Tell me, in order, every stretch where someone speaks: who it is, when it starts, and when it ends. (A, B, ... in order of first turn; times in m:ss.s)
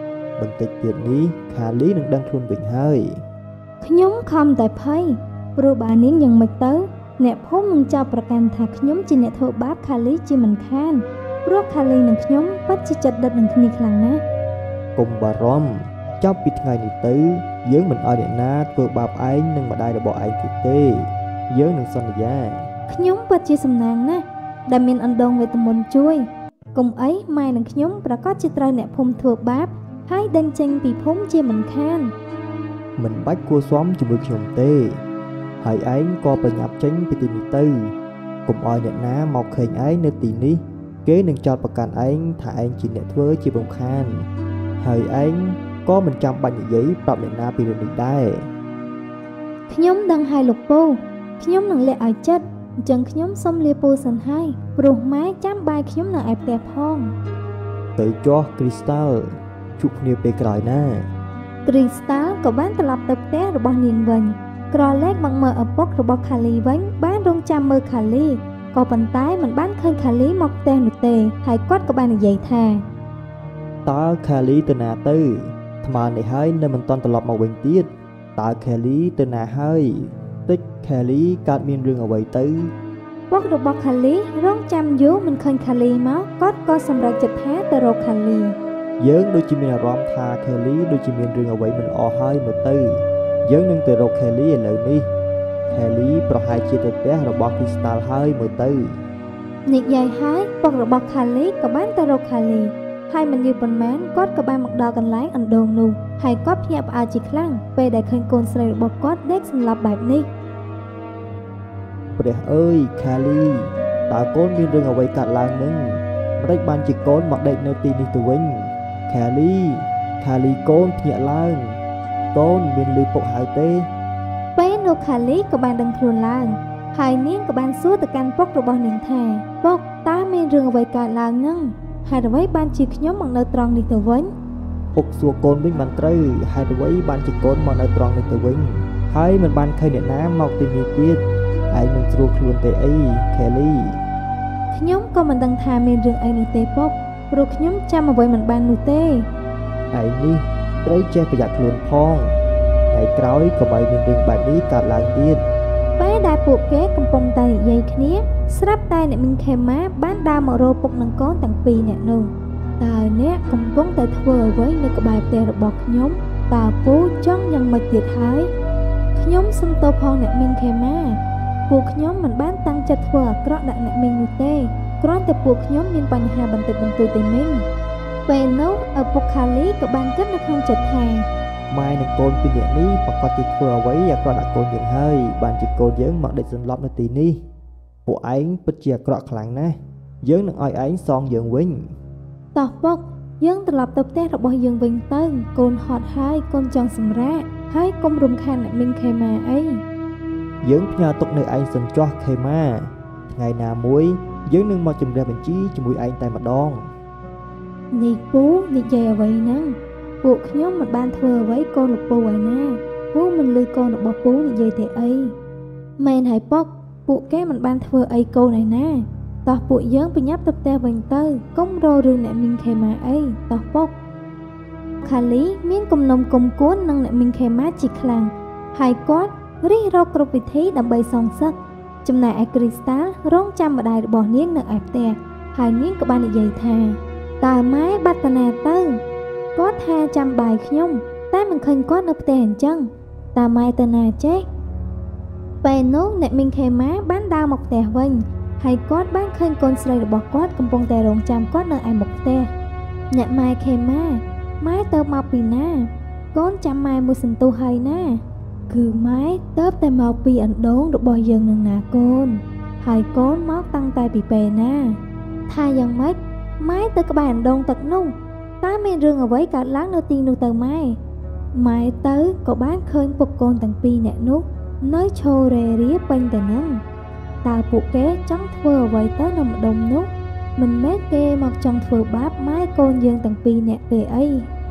0:00.4-0:03.1 A
0:03.8-0:14.2 B
0:15.0-0:22.6 A
0:22.9-0:26.2 B
0:26.7-0:32.1 B
0:33.0-0:35.0 A
0:35.6-0:37.9 A
0:38.5-0:44.2 A
0:44.8-0:48.5 A
0:49.7-0:57.1 B
0:58.0-0:59.2 A
0:59.8-1:01.0 A
1:01.7-1:12.8 B
1:13.9-1:22.7 A
1:23.3-1:28.6 B
1:29.0-1:32.9 A
1:33.4-1:35.0 A
1:35.7-1:38.9 A
1:39.7-1:50.3 B
1:52.2-1:53.6 A
1:54.1-1:55.9 A
1:56.4-2:01.8 A
2:02.3-2:03.9 A
2:04.6-2:14.3 B
2:15.0-2:21.2 A
2:21.7-2:24.0 A
2:24.7-2:29.2 B
2:29.9-2:32.2 A
2:32.9-2:35.4 A
2:36.0-2:48.5 B
2:49.2-2:57.6 B
2:58.3-3:01.3 B
3:01.7-3:07.4 A
3:08.1-3:11.8 A
3:12.6-3:19.8 B
3:20.6-3:26.8 A
3:27.9-3:35.3 B
3:36.0-3:43.9 B
3:45.0-3:59.0 B
3:59.6-4:04.4 B
4:05.6-4:12.5 B
4:13.1-4:25.0 B
4:25.5-4:31.0 B
4:31.5-4:36.8 B
4:37.4-4:44.5 B